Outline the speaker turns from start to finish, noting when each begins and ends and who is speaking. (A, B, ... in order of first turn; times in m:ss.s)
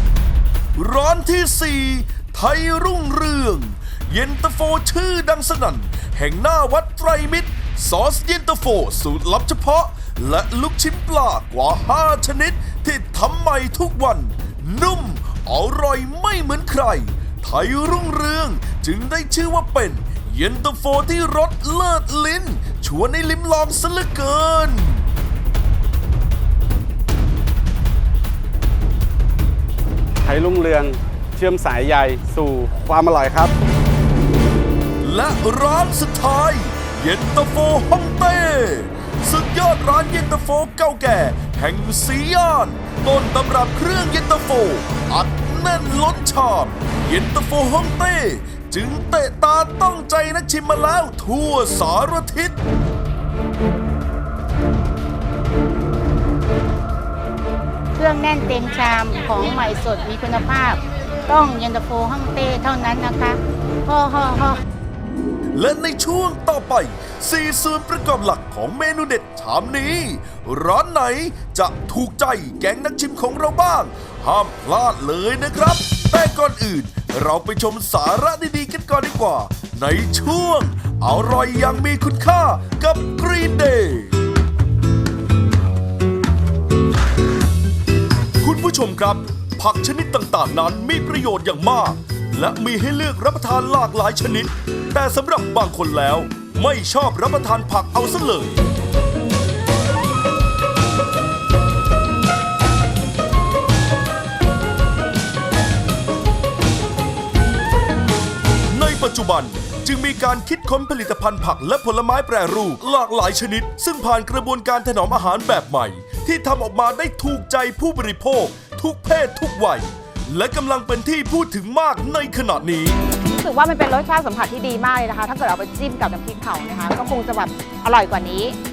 0:00.8-0:25.0 A
0:30.2-0:33.5 B
0:35.0-0:52.6 A
0:58.0-1:04.6 C
1:05.5-1:24.1 A
1:28.4-1:38.6 A
1:48.7-2:03.0 A
2:03.4-2:08.6 D